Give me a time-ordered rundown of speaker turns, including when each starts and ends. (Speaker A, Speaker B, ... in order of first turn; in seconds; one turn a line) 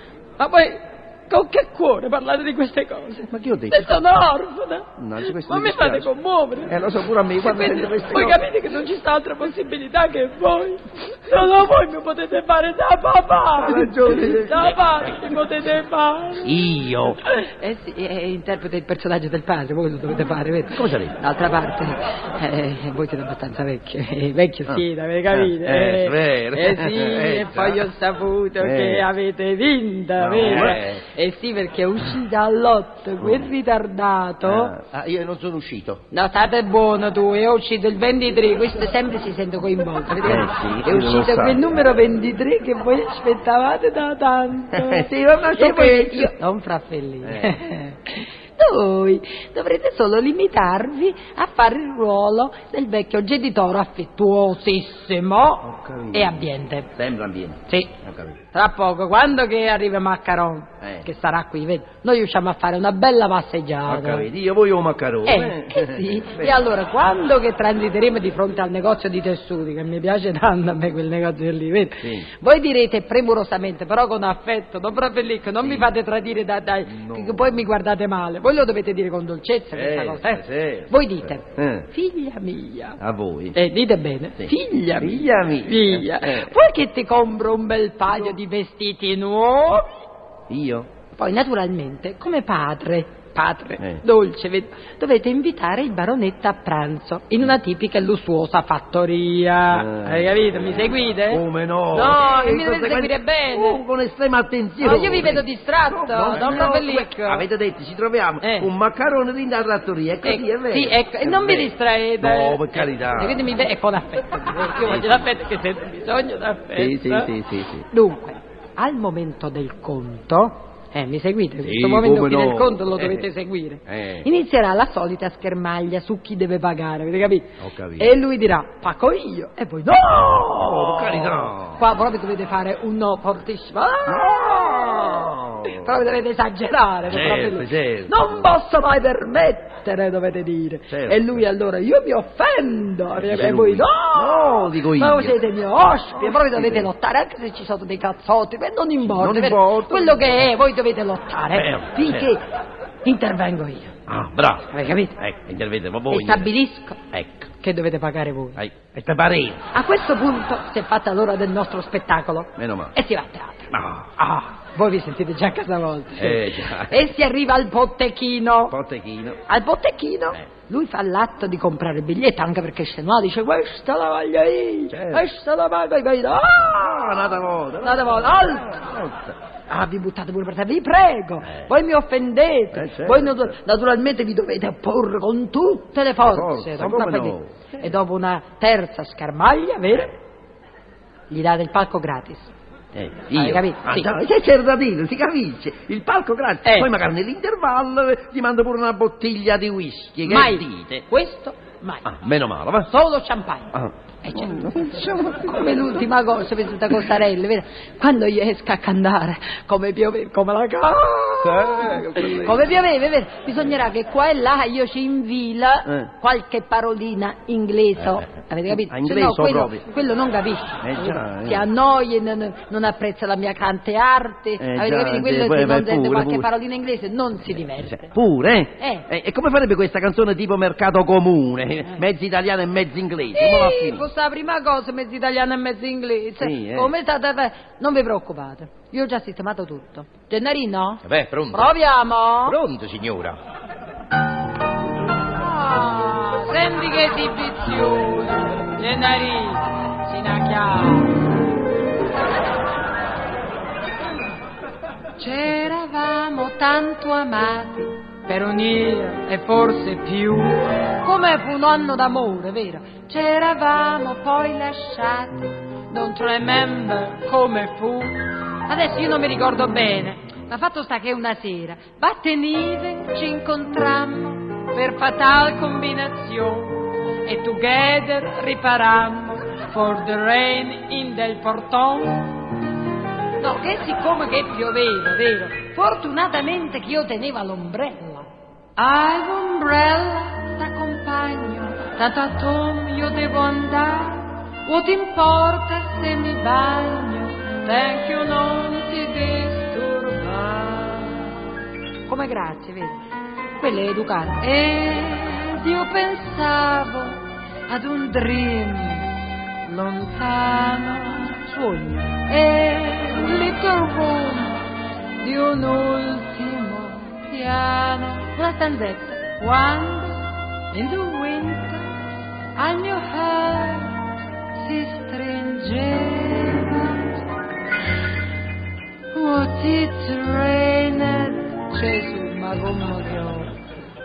Speaker A: 0.4-16.5
Speaker B: 3.3-4.0
Speaker B: 5.0-6.1
Speaker B: 6.7-8.4
Speaker B: 13.6-15.3
Speaker B: 16.4-17.2
Speaker A: 17.2-34.8
Speaker B: 20.7-21.1
Speaker B: 24.7-27.9
Speaker B: 28.6-29.1
Speaker B: 30.2-31.0
Speaker B: 33.2-33.5
Speaker C: 34.8-36.0
Speaker A: 36.1-56.9
Speaker B: 40.2-41.7
Speaker B: 44.7-46.4
Speaker B: 47.2-47.6
Speaker B: 55.6-58.4
Speaker A: 57.7-58.0
Speaker A: 58.5-64.3
Speaker B: 60.8-61.1
Speaker B: 63.9-66.7
Speaker A: 65.2-83.0
Speaker B: 72.0-72.3
Speaker B: 75.6-75.9
Speaker B: 76.9-77.6
Speaker B: 79.7-81.9
Speaker B: 83.0-83.6
Speaker A: 83.5-89.9
Speaker B: 84.4-86.6
Speaker B: 90.5-90.9
Speaker A: 91.2-103.8
Speaker B: 93.8-94.0
Speaker B: 99.7-113.5
Speaker A: 104.8-107.5
Speaker A: 108.4-108.7
Speaker A: 110.2-117.3
Speaker B: 114.8-115.3
Speaker B: 116.7-117.9
Speaker A: 117.9-152.4
Speaker B: 121.6-123.2
Speaker B: 123.9-124.3
Speaker B: 127.6-128.1
Speaker B: 130.3-131.9
Speaker B: 134.1-136.0
Speaker B: 137.1-138.2
Speaker B: 140.9-141.4
Speaker B: 143.1-145.4
Speaker B: 146.2-146.9
Speaker B: 149.0-150.5
Speaker B: 151.5-152.3
Speaker A: 153.0-153.9
Speaker B: 154.1-156.5
Speaker A: 154.7-155.2
Speaker A: 156.1-157.0
Speaker B: 157.1-157.5
Speaker A: 157.6-158.6
Speaker B: 158.6-159.7
Speaker A: 159.7-168.8
Speaker B: 162.6-162.9
Speaker B: 163.7-164.1
Speaker B: 166.2-167.1
Speaker B: 168.7-169.4
Speaker A: 169.5-178.9
Speaker B: 174.9-175.2
Speaker B: 176.6-179.3
Speaker A: 179.7-190.2
Speaker B: 182.7-183.5
Speaker B: 186.2-187.9
Speaker A: 191.3-192.5
Speaker B: 192.9-201.1
Speaker A: 193.3-194.1
Speaker A: 196.7-196.9
Speaker A: 200.2-202.1
Speaker B: 202.1-202.9
Speaker A: 202.9-203.7
Speaker B: 203.7-206.0
Speaker A: 204.2-228.1
Speaker B: 211.4-212.8
Speaker B: 218.7-219.8
Speaker B: 220.8-221.7
Speaker B: 224.6-226.5
Speaker B: 227.8-234.1
Speaker A: 228.8-229.1
Speaker A: 233.3-242.6
Speaker B: 236.4-236.9
Speaker C: 241.1-241.7
Speaker C: 242.5-243.4
Speaker A: 245.2-251.4
Speaker A: 255.2-282.5
Speaker A: 283.4-301.5
Speaker A: 302.1-303.0
Speaker A: 303.6-314.7
Speaker A: 315.2-327.2
Speaker A: 329.1-333.6